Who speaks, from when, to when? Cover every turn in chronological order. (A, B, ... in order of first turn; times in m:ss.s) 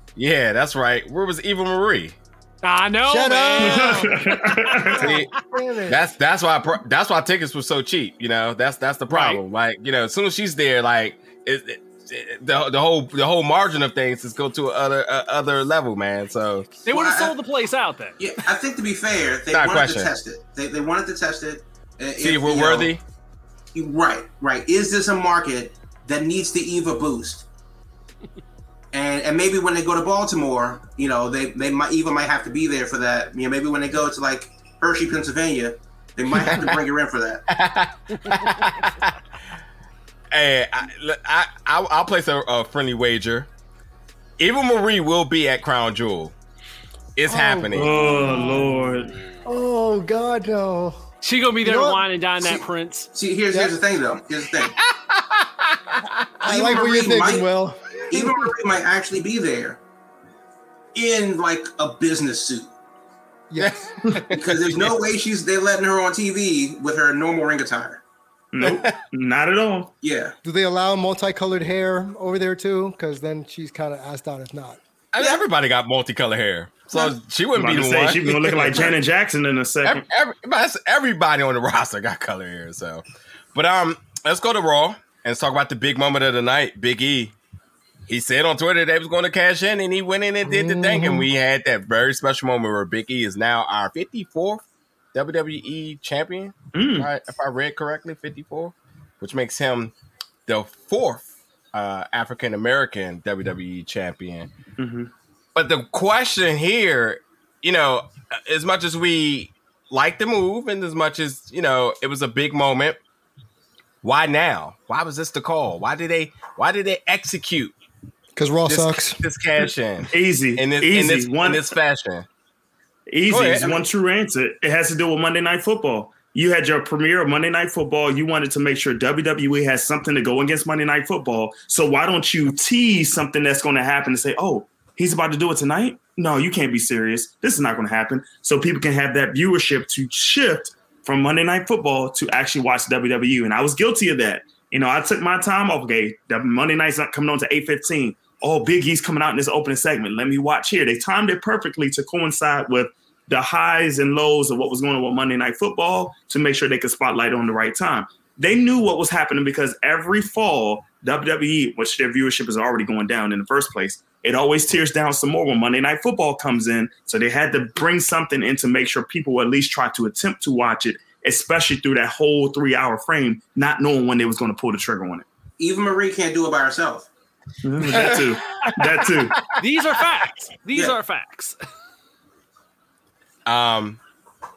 0:00.2-0:02.2 A
0:02.6-0:05.2 B
0:03.1-0:06.1 C
0:03.6-0:05.0 D
0:05.0-0:05.3 A
0:05.9-0:16.7 A
0:09.1-0:09.4 B
0:16.8-0:18.2 B
0:16.9-0:17.3 E
0:18.2-0:22.9 E
0:19.5-0:20.1 A
0:22.2-0:23.0 A
0:23.7-0:27.4 E
0:28.9-0:37.4 E
0:36.3-0:36.8 A
0:37.5-0:39.1 A
0:38.2-0:38.8 B
0:40.3-0:43.5 A
0:44.4-0:46.3 A
0:47.2-0:48.2 A
0:47.3-0:48.9 C
0:47.7-0:49.2 D
0:49.4-0:51.0 C
0:51.2-0:53.1 B
0:51.6-0:52.6 C
0:53.1-0:54.8 E
0:54.8-0:56.2 A
0:56.4-0:58.5 C
0:56.4-0:57.4 E
0:58.1-0:59.8 E
1:00.9-1:02.7 E
1:03.5-1:04.2 C
1:03.6-1:04.9 A
1:04.3-1:08.0 E
1:08.5-1:09.9 D
1:08.6-1:09.0 A
1:10.0-1:10.3 E
1:10.4-1:14.8 C
1:15.1-1:18.9 A
1:17.5-1:20.0 D
1:19.8-1:23.0 A
1:23.5-1:27.3 A
1:28.1-1:34.6 A
1:30.4-1:31.3 C
1:35.1-1:39.9 A
1:36.7-1:37.1 D
1:40.5-1:44.5 A
1:44.8-1:45.1 D
1:45.5-1:53.0 A
1:54.0-1:57.7 A
1:58.4-1:59.2 C
1:58.6-2:02.2 A
2:00.1-2:01.6 D
2:03.1-2:55.2 D
2:03.3-2:03.8 A
2:55.6-2:57.1 E
2:57.6-2:59.4 D
2:57.8-2:59.5 A
2:59.6-3:01.6 B
3:03.4-3:04.0 A